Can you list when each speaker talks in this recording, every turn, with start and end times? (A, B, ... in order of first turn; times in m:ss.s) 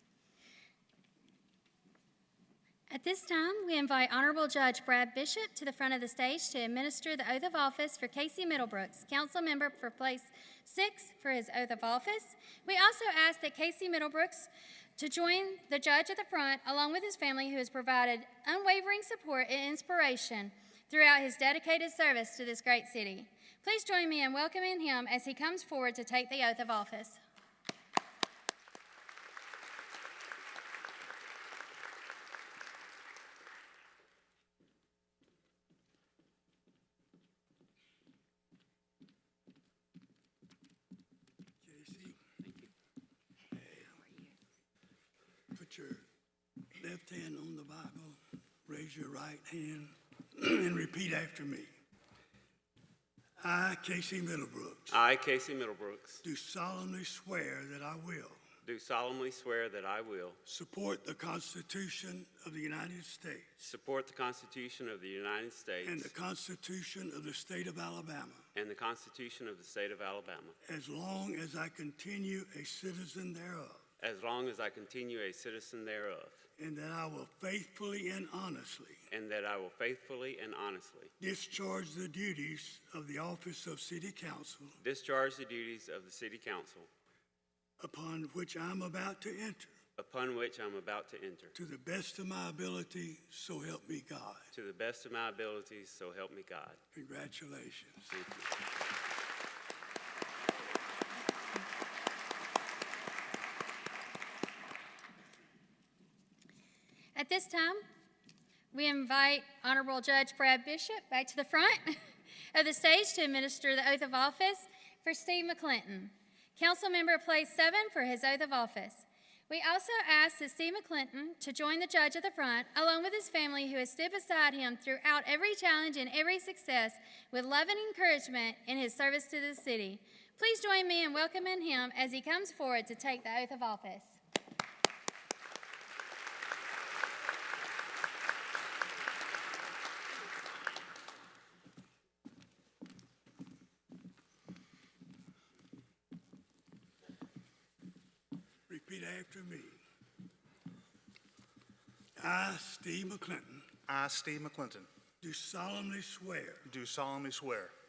0:02.9-0:27.2 A
0:41.6-0:42.2 B
0:42.4-0:42.7 C
0:43.5-0:44.1 B
0:45.5-0:46.1 B
0:46.8-0:51.7 B
0:53.4-0:55.0 B
0:54.9-0:56.2 C
0:56.2-0:58.4 B
0:58.6-1:00.4 C
1:00.5-1:03.5 B
1:03.6-1:06.1 C
1:05.8-1:08.5 B
1:08.6-1:10.6 C
1:10.7-1:13.8 B
1:14.0-1:16.4 C
1:16.6-1:19.0 B
1:19.1-1:21.1 C
1:21.2-1:24.8 B
1:24.8-1:26.9 C
1:27.8-1:29.8 B
1:30.0-1:31.6 C
1:31.5-1:34.5 B
1:34.5-1:36.8 C
1:36.9-1:38.1 B
1:38.1-1:38.5 C
1:47.2-1:47.8 A
1:48.7-1:52.0 A
1:52.5-2:14.2 A
2:28.7-2:29.8 B
2:32.2-2:33.7 B
2:33.9-2:34.9 D
2:35.2-2:36.7 B
2:36.6-2:37.7 D